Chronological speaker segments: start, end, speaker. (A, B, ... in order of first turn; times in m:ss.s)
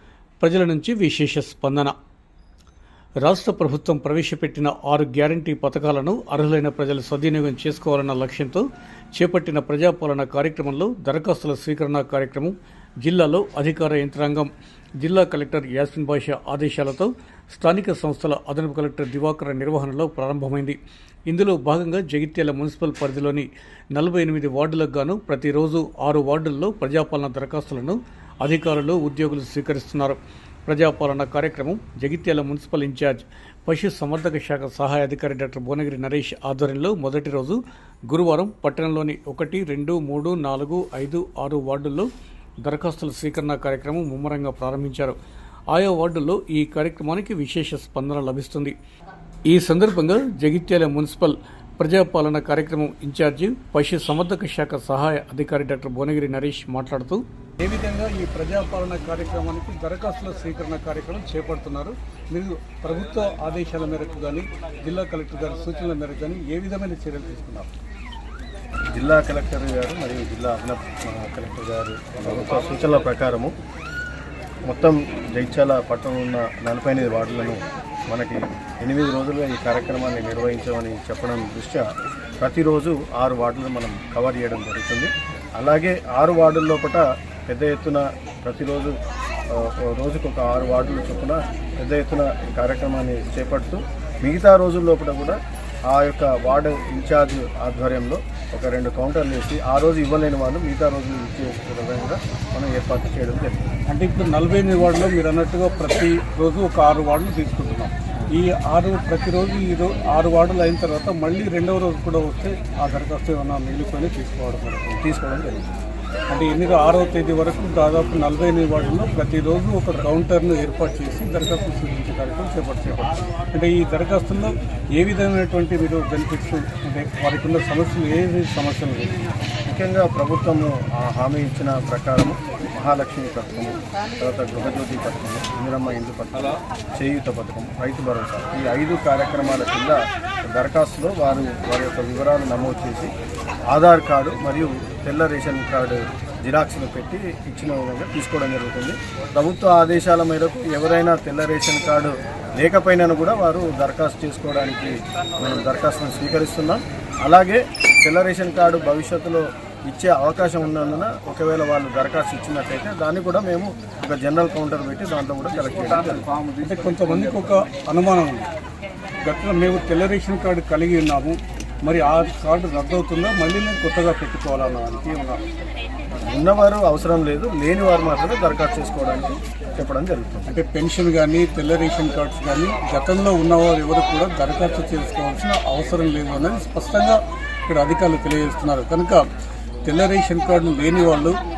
0:00.4-0:01.9 A
0:03.2-0:42.1 A
0:42.6-0:45.2 A
0:45.7-0:48.8 A
0:49.5-1:07.7 A
1:08.9-1:13.5 B
1:14.7-1:21.8 B
1:22.4-1:28.9 B
1:29.5-1:35.4 B
1:35.9-1:43.7 B
1:43.9-1:55.0 A
1:55.0-1:55.6 B
1:56.3-2:09.2 A
2:09.7-2:23.1 B
2:23.7-2:46.3 B
2:46.6-2:48.5 A
2:49.2-2:55.4 A
2:56.2-3:00.5 B
3:00.5-3:09.3 A
3:09.8-3:11.4 A